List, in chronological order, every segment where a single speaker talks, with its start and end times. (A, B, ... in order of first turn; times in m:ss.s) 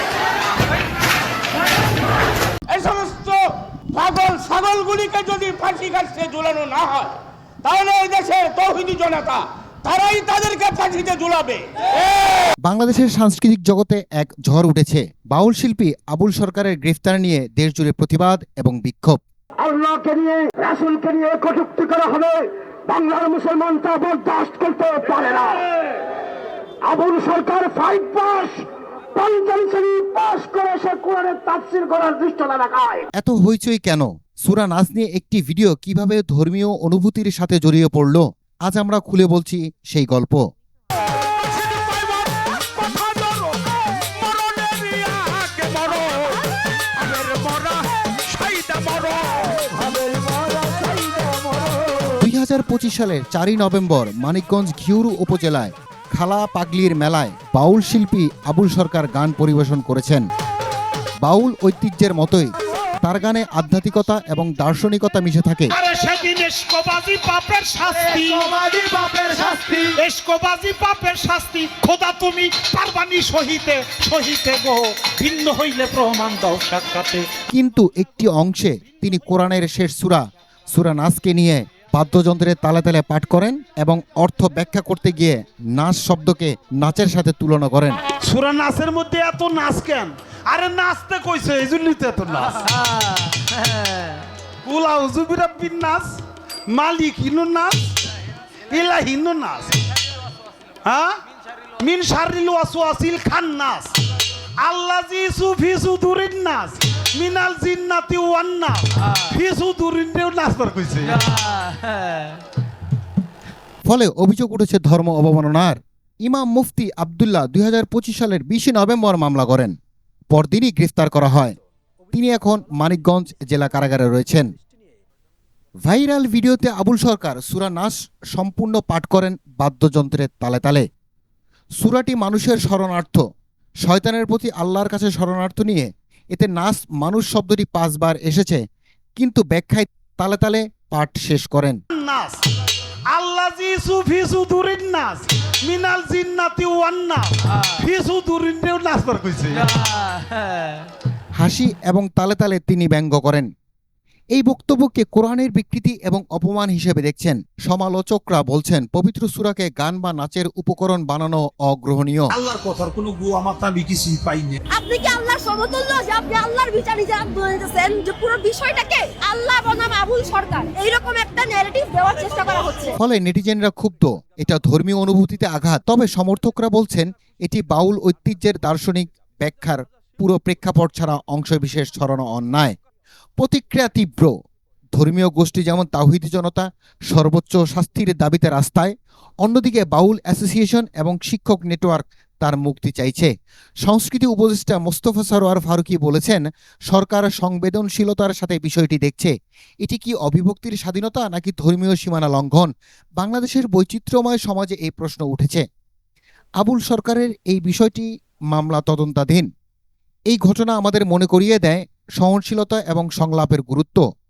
0:02.7-0:12.5 A
0:12.6-0:19.2 B
0:19.6-0:25.7 C
0:26.8-0:28.6 C
0:29.2-0:33.1 C
0:33.2-0:40.4 B
0:42.8-0:43.5 C
0:44.7-0:46.3 D
0:47.3-0:47.6 D
0:48.3-0:49.6 D
0:49.7-0:52.1 C
0:52.1-1:00.3 B
1:01.2-1:05.8 B
1:05.7-1:08.6 E
1:09.2-1:17.3 E
1:17.5-1:28.0 B
1:28.2-1:32.8 E
1:34.6-1:37.9 E
1:38.7-1:39.8 E
1:40.8-1:41.2 E
1:41.8-1:44.0 E
1:44.6-1:51.2 E
1:53.9-1:59.8 B
2:00.3-2:01.6 B
2:02.1-2:04.5 B
2:05.8-2:10.8 B
2:11.8-2:13.2 B
2:13.8-2:18.6 B
2:19.2-2:21.8 B
2:21.9-2:22.4 E
2:23.1-2:29.7 E
2:31.4-2:33.5 B
2:34.4-2:42.3 B
2:42.3-2:44.6 D
2:44.7-2:52.9 F
2:53.0-3:02.8 B
3:03.4-3:04.3 B
3:05.0-3:13.3 B
3:13.9-3:25.6 B
3:26.6-3:29.5 B
3:30.3-3:34.0 B